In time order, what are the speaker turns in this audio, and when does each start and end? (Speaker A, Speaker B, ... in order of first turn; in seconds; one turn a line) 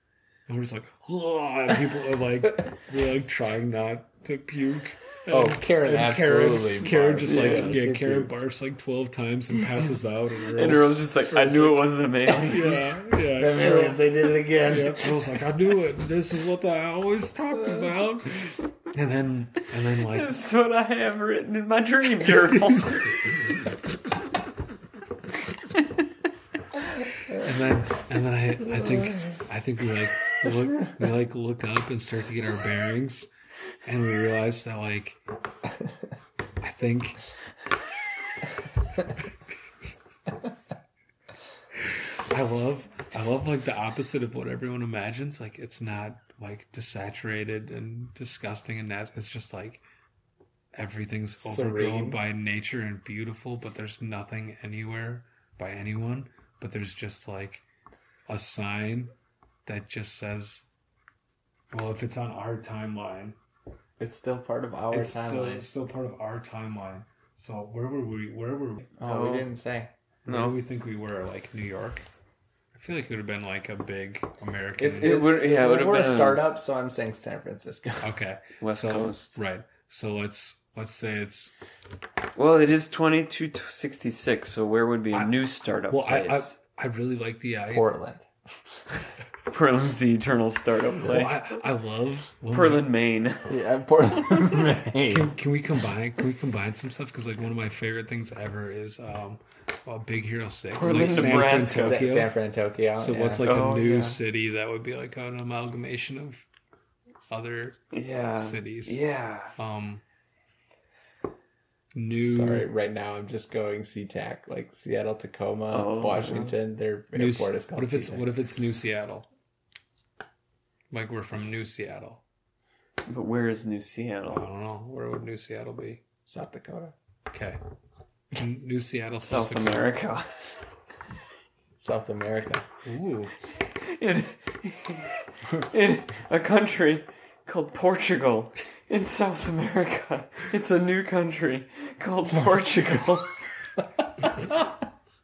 Speaker A: 0.5-14.0
Speaker B: 5.3-8.4
Speaker C: 7.2-7.8
Speaker C: 10.6-12.8
Speaker B: 12.3-15.2
Speaker A: 14.6-20.4
Speaker C: 20.1-23.2
Speaker A: 27.3-33.3
Speaker A: 33.9-35.2
Speaker A: 36.6-37.2
Speaker A: 42.3-49.8
Speaker A: 50.7-57.6
Speaker B: 51.4-52.2
Speaker A: 58.3-59.1
Speaker A: 59.7-60.6
Speaker A: 61.7-63.4
Speaker B: 64.0-65.7
Speaker A: 64.9-68.9
Speaker B: 69.0-69.9
Speaker C: 69.0-69.5
Speaker C: 70.3-70.6
Speaker A: 70.3-72.0
Speaker A: 72.7-75.2
Speaker B: 74.8-78.1
Speaker C: 74.9-76.5
Speaker A: 78.0-81.5
Speaker C: 78.6-79.4
Speaker C: 82.4-86.5
Speaker A: 85.1-87.9
Speaker B: 87.7-88.2
Speaker C: 89.5-91.4
Speaker A: 91.0-92.9
Speaker C: 92.5-93.5
Speaker B: 93.5-95.3
Speaker A: 95.1-102.3
Speaker C: 100.8-102.0
Speaker B: 100.8-103.5
Speaker A: 103.0-106.5
Speaker C: 103.4-104.2
Speaker A: 107.3-109.0
Speaker C: 107.9-109.5
Speaker A: 109.6-110.0
Speaker A: 111.9-112.7
Speaker B: 112.2-118.2
Speaker C: 115.7-116.5
Speaker A: 117.1-119.3
Speaker A: 120.9-122.2
Speaker C: 123.1-124.5
Speaker A: 124.3-126.0
Speaker B: 126.3-126.9
Speaker A: 127.3-127.6
Speaker A: 128.3-129.9
Speaker C: 129.2-130.4
Speaker B: 131.8-132.6
Speaker A: 132.8-133.3
Speaker C: 133.8-143.3